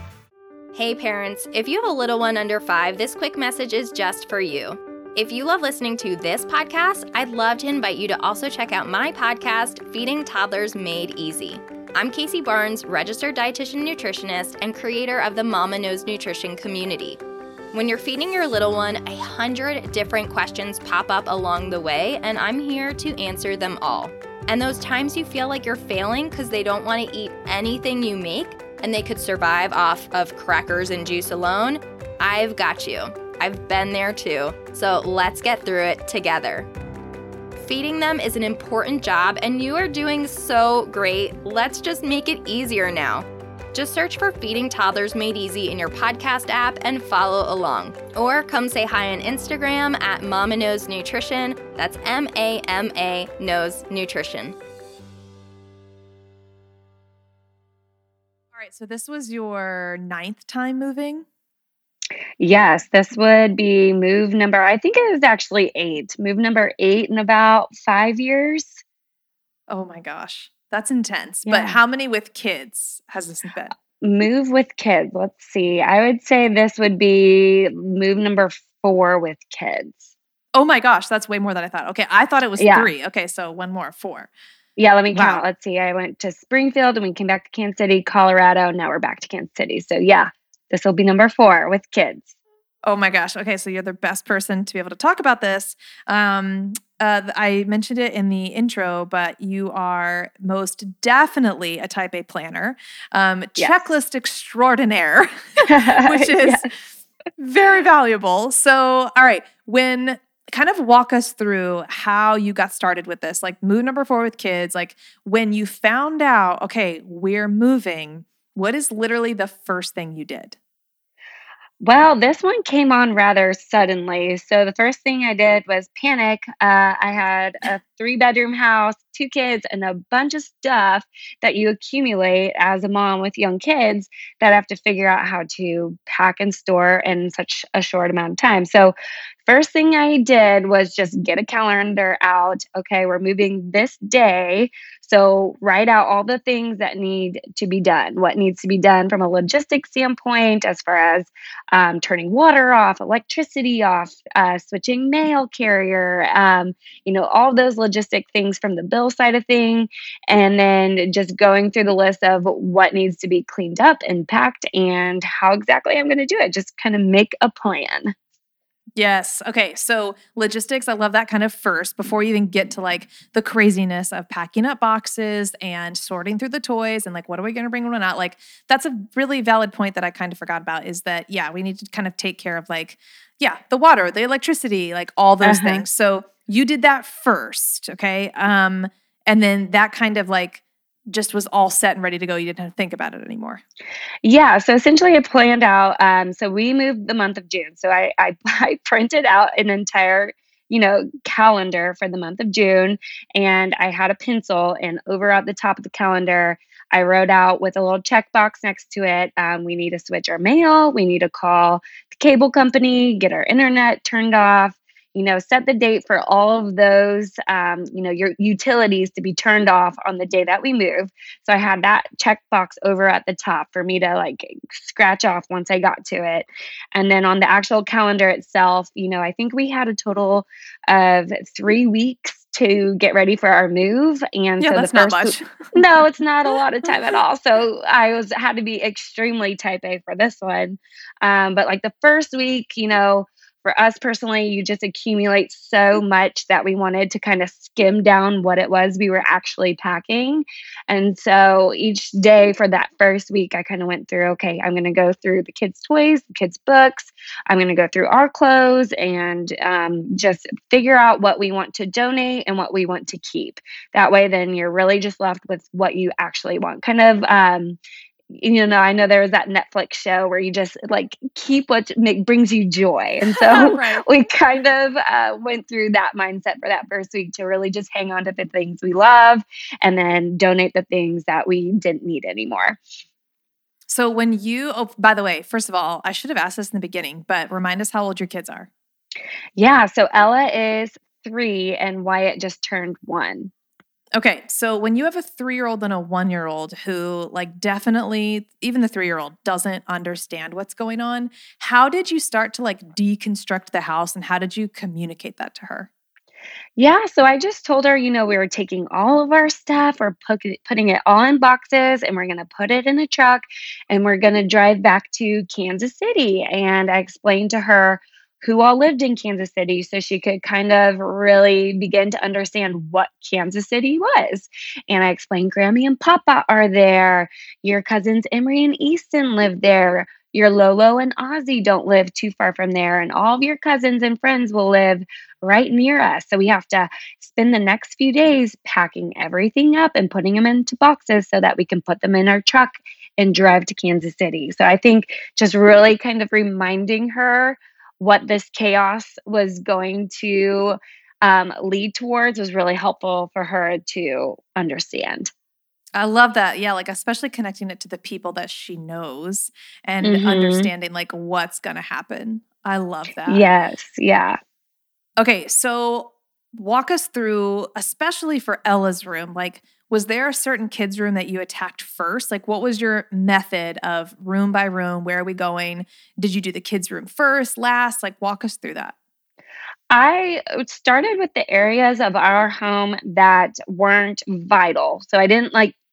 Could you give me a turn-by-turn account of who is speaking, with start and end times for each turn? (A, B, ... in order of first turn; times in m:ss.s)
0:00.8-0:17.2 A
0:17.7-0:36.7 A
0:37.6-0:54.6 A
0:58.5-1:01.2 B
1:02.4-1:08.8 C
1:09.7-1:13.8 B
1:11.5-1:11.8 C
1:14.0-1:20.1 C
1:20.6-1:24.3 B
1:22.6-1:22.9 C
1:24.8-1:32.3 C
1:25.1-1:25.4 B
1:32.8-1:46.7 B
1:45.7-1:46.7 C
1:47.4-2:00.6 B
2:01.8-2:18.9 C
2:19.4-2:48.1 C
2:49.0-3:13.6 B
3:05.4-3:05.8 C
3:14.2-4:27.8 C
3:54.6-3:55.7 B
4:28.3-4:42.8 C
4:33.2-4:34.0 B
4:43.9-4:48.7 B
4:49.6-4:53.5 C
4:54.2-5:05.9 B
5:06.8-5:55.3 C
5:56.0-6:03.4 B
6:00.0-6:00.7 C
6:03.3-6:04.4 C
6:05.2-6:19.0 B
6:19.9-6:25.8 C